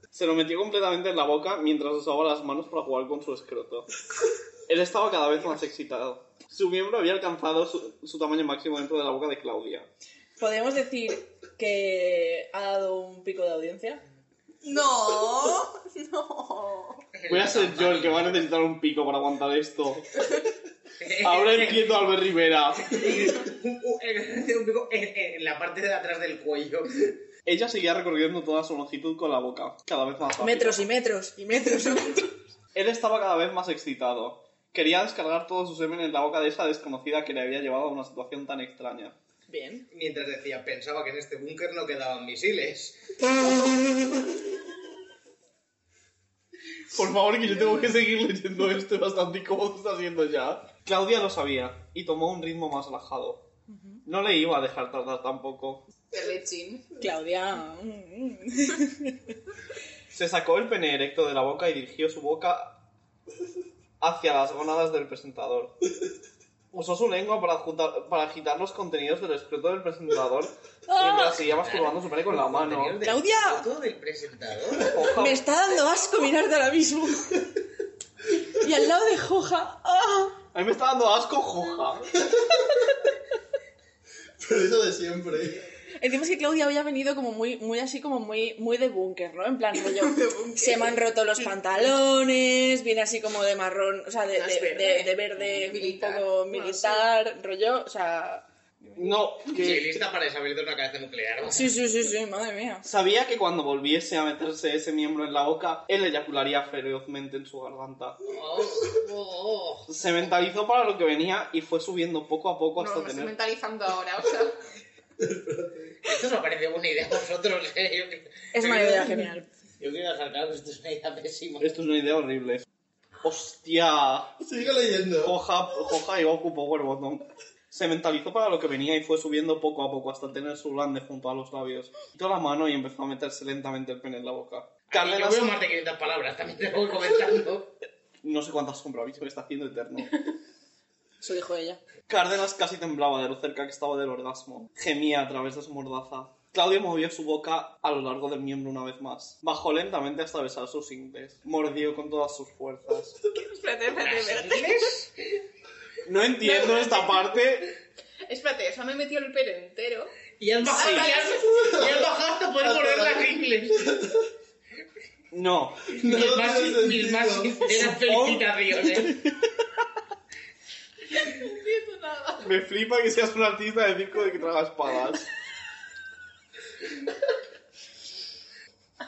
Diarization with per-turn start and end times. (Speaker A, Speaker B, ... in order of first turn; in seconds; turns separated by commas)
Speaker A: 0.1-3.9, Speaker A: 4.7-9.9, Speaker B: 10.4-14.0, Speaker B: 14.7-15.7, Speaker C: 14.7-17.1, Speaker D: 17.2-18.4, Speaker A: 17.3-20.3, Speaker D: 21.0-21.9, Speaker A: 21.2-23.3, Speaker D: 22.9-27.1, Speaker A: 27.5-30.8, Speaker B: 30.4-32.4, Speaker A: 32.8-39.2, Speaker B: 39.5-39.9, Speaker D: 39.9-43.0, Speaker A: 46.9-53.5, Speaker A: 54.1-55.8, Speaker C: 56.1-56.9, Speaker B: 57.0-59.1, Speaker A: 60.1-62.8, Speaker A: 64.0-65.8, Speaker A: 66.7-73.0, Speaker B: 70.9-71.3, Speaker D: 71.1-74.9, Speaker B: 73.0-73.7, Speaker A: 74.8-75.4, Speaker B: 75.1-77.6, Speaker B: 78.6-80.4, Speaker A: 80.5-82.2, Speaker E: 84.4-85.7, Speaker B: 86.0-98.5, Speaker C: 89.7-91.5, Speaker C: 94.3-97.1, Speaker A: 99.0-100.0, Speaker D: 99.5-101.8, Speaker B: 101.5-102.9, Speaker A: 102.8-108.2, Speaker D: 108.3-109.9, Speaker A: 109.9-113.3, Speaker C: 112.8-114.5, Speaker E: 115.2-116.0, Speaker D: 116.0-119.2, Speaker B: 118.5-119.5, Speaker D: 119.8-121.8, Speaker A: 121.6-122.6, Speaker A: 123.2-124.4, Speaker E: 124.4-125.3, Speaker A: 125.2-135.6, Speaker D: 134.9-137.7, Speaker A: 138.2-140.2, Speaker B: 141.2-141.8, Speaker A: 142.1-153.2, Speaker C: 153.3-154.9, Speaker D: 153.9-155.1, Speaker A: 156.1-157.8, Speaker C: 156.4-157.3, Speaker C: 158.3-160.1, Speaker D: 160.4-163.8, Speaker C: 160.7-161.6, Speaker A: 160.7-161.1, Speaker E: 161.6-162.1, Speaker E: 162.7-163.3, Speaker E: 163.9-164.2, Speaker A: 165.3-166.0, Speaker D: 166.0-169.2, Speaker E: 166.0-167.7, Speaker A: 167.8-169.3, Speaker C: 171.1-172.5, Speaker A: 172.4-175.3